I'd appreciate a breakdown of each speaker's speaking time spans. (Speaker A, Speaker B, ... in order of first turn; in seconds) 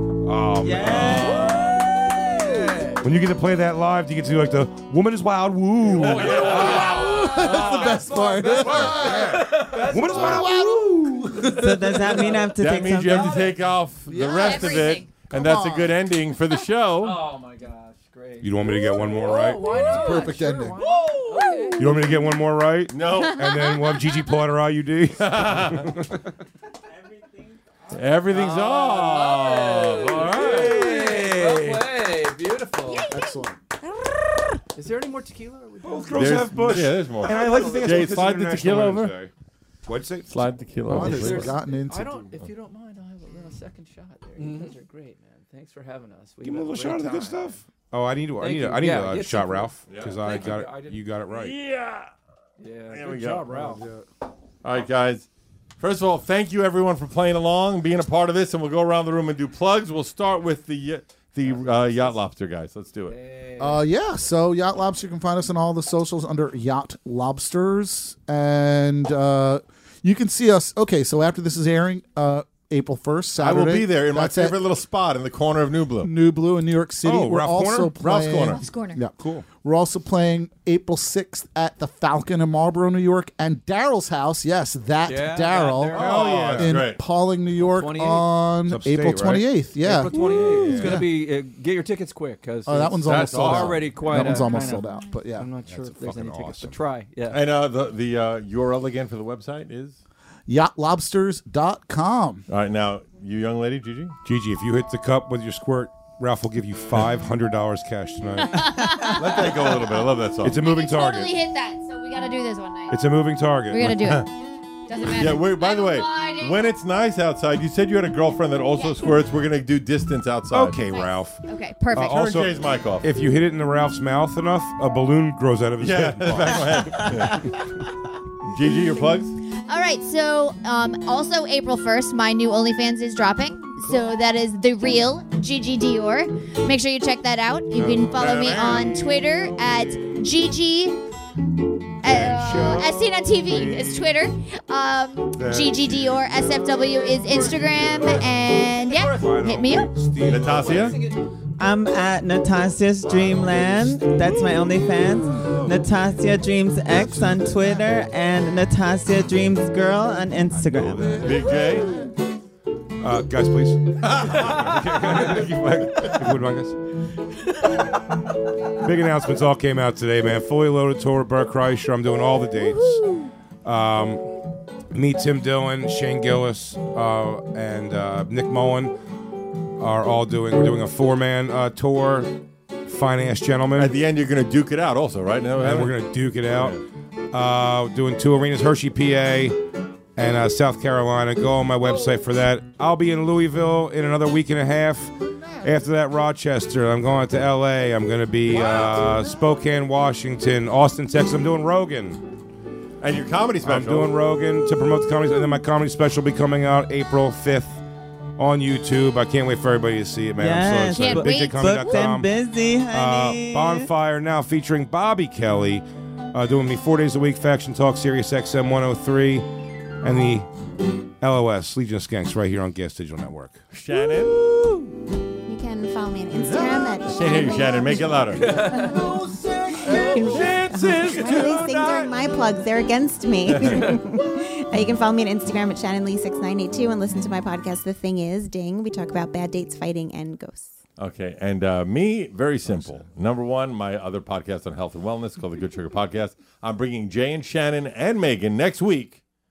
Speaker A: 0.2-1.7, 3.0-7.1, 8.9-11.5, 18.4-19.9, 21.8-26.3, 35.8-39.3, 39.9-40.3, 46.4-51.6, 77.0-78.0, 79.2-79.5, 85.9-86.8, 88.7-91.0, 95.7-96.8, 104.2-109.4, 110.4-111.4, 112.9-114.2, 120.5-127.3, 137.7-139.1, 139.7-140.1, 142.0-144.1, 145.3-146.3, 147.4-148.3, 149.2-151.0, 153.0-154.1, 160.5-161.5, 163.0-166.8, 168.8-173.0, 173.6-174.3, 174.9-178.9, 179.8-184.0, 185.6-186.8, 187.3-189.6, 190.2-202.2, 203.6-207.8, 208.4-212.3, 212.9-219.5, 220.0-220.5, 221.2-223.6
Speaker B: 0.6-2.8, 11.6-13.5, 20.9-21.5, 26.9-27.9, 151.6-161.2, 210.4-213.9
Speaker C: 1.0-3.1, 5.9-10.7, 12.1-12.5, 16.9-22.4, 28.2-33.2, 33.8-38.1, 40.9-47.6, 48.4-51.1, 52.6-53.8, 61.4-62.2, 63.1-63.9, 85.0-86.8, 87.5-88.4, 89.7-97.4, 147.2-149.6, 150.2-151.2, 228.3-229.2, 229.8-231.6
Speaker D: 1.8-2.3, 6.4-12.3, 14.1-15.9, 19.6-20.8, 33.1-33.6, 40.9-42.4, 53.5-54.0, 63.6-74.6, 76.0-91.1, 92.7-95.5, 100.5-102.4, 155.3-155.8, 156.9-157.7, 160.8-162.2, 195.3-195.6, 198.5-199.2, 224.1-224.9, 226.3-226.9, 228.5-230.6
Speaker E: 5.9-7.9, 12.5-17.3, 22.9-23.5, 25.2-25.9, 27.9-31.9, 36.1-39.1, 40.3-41.6, 49.9-50.2, 51.3-52.1, 52.9-53.6, 54.6-55.3, 55.8-63.2, 73.4-76.1, 78.0-78.6, 85.9-87.0, 93.0-94.0, 97.3-100.0, 102.5-104.2, 109.1-110.6, 113.9-114.3, 115.0-120.8, 122.0-123.1, 125.8-127.5, 128.4-129.3, 150.2-151.0, 161.2-161.9, 164.1-164.8, 183.8-185.9, 186.5-186.8, 203.0-204.1, 223.7-224.3, 227.0-228.6, 230.3-232.1, 233.5-233.9, 241.0-249.2
Speaker F: 14.3-15.1, 23.4-23.9, 78.5-79.0, 94.8-95.2, 108.5-109.2, 110.6-113.0, 113.7-114.3, 114.8-116.8, 118.7-119.2, 120.9-122.2, 129.7-141.0, 142.0-149.9, 210.9-212.0
Speaker G: 225.4-228.5, 229.8-240.7